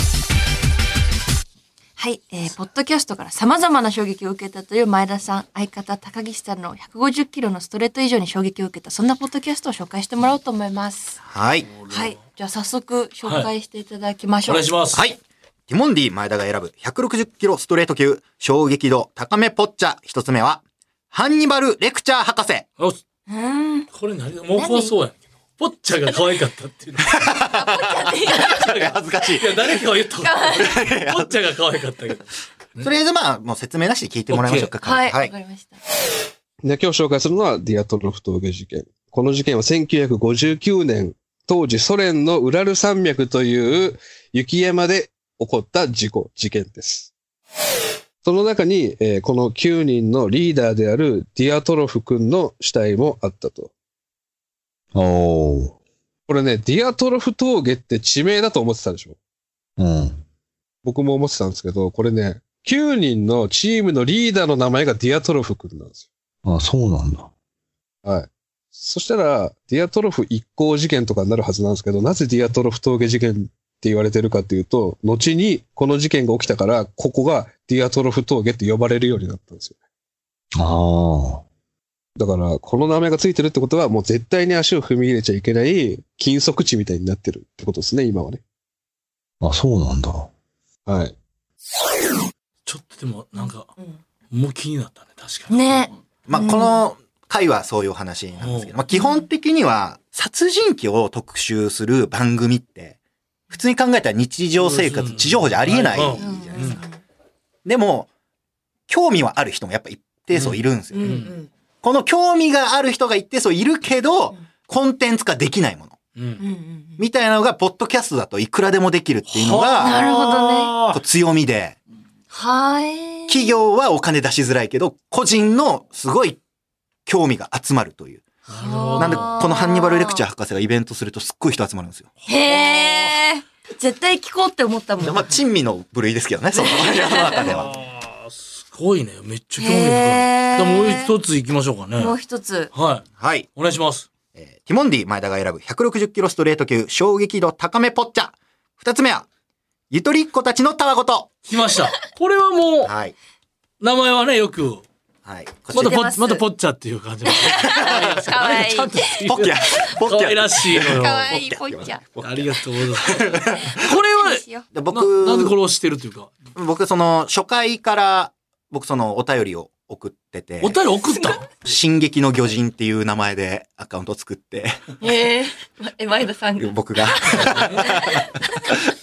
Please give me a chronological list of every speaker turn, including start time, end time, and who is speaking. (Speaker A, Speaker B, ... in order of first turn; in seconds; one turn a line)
Speaker A: 2.0-11.2
Speaker B: 11.2-11.7
Speaker A: 11.9-14.7
Speaker C: 14.5-15.0
Speaker B: 14.9-20.6
Speaker B: 21.1-22.7
Speaker A: 23.3-23.9
Speaker C: 23.9-27.1
Speaker A: 24.5-24.9
Speaker B: 27.1-27.8
Speaker A: 27.4-28.7
Speaker C: 28.5-32.9
Speaker B: 28.6-29.6
Speaker A: 30.2-30.7
Speaker B: 30.6-31.3
Speaker B: 32.8-35.3
Speaker C: 34.3-34.7
Speaker A: 34.8-35.8
Speaker D: 36.6-47.1
Speaker D: 48.2-53.7
Speaker E: 54.9-55.8
Speaker D: 56.3-59.2
Speaker E: 59.8-60.2
Speaker D: 60.8-66.1
Speaker E: 66.4-67.3
Speaker D: 68.0-79.8
Speaker E: 80.6-81.4
Speaker D: 82.2-88.4
Speaker E: 89.4-90.3
Speaker D: 90.9-91.2
Speaker C: 92.7-93.7
Speaker A: 93.4-94.0
Speaker C: 94.3-95.9
Speaker A: 95.5-96.8
Speaker B: 96.3-103.0
Speaker C: 98.4-98.7
Speaker A: 98.9-99.3
Speaker B: 103.5-106.8
Speaker C: 104.6-106.8
Speaker A: 106.2-107.0
Speaker B: 107.7-108.1
Speaker B: 108.9-111.2
Speaker C: 110.3-111.3
Speaker A: 110.9-111.5
Speaker B: 111.8-116.0
Speaker C: 116.2-116.4
Speaker A: 116.4-117.0
Speaker B: 117.0-120.0
Speaker C: 119.3-121.0
Speaker A: 119.8-120.7
Speaker B: 120.9-121.8
Speaker A: 122.3-123.6
Speaker B: 123.3-126.4
Speaker B: 127.1-128.2
Speaker C: 128.5-129.3
Speaker A: 128.6-130.2
Speaker B: 129.0-132.1
Speaker A: 132.3-135.2
Speaker C: 132.5-133.2
Speaker B: 135.0-137.7
Speaker A: 136.5-137.4
Speaker C: 137.4-142.2
Speaker A: 139.6-141.2
Speaker A: 142.0-142.7
Speaker C: 142.7-144.1
Speaker B: 143.2-143.5
Speaker B: 144.3-149.3
Speaker B: 149.9-151.3
Speaker C: 151.5-152.9
Speaker B: 152.8-153.2
Speaker C: 153.8-154.8
Speaker B: 155.2-155.9
Speaker A: 155.7-156.4
Speaker C: 155.7-161.3
Speaker A: 157.3-159.2
Speaker B: 157.6-158.1
Speaker B: 159.2-163.8
Speaker A: 160.9-162.0
Speaker C: 162.2-166.3
Speaker A: 163.4-164.7
Speaker B: 164.7-165.6
Speaker B: 166.6-170.8
Speaker C: 170.6-171.5
Speaker B: 171.5-174.8
Speaker A: 175.0-178.7
Speaker B: 176.6-178.2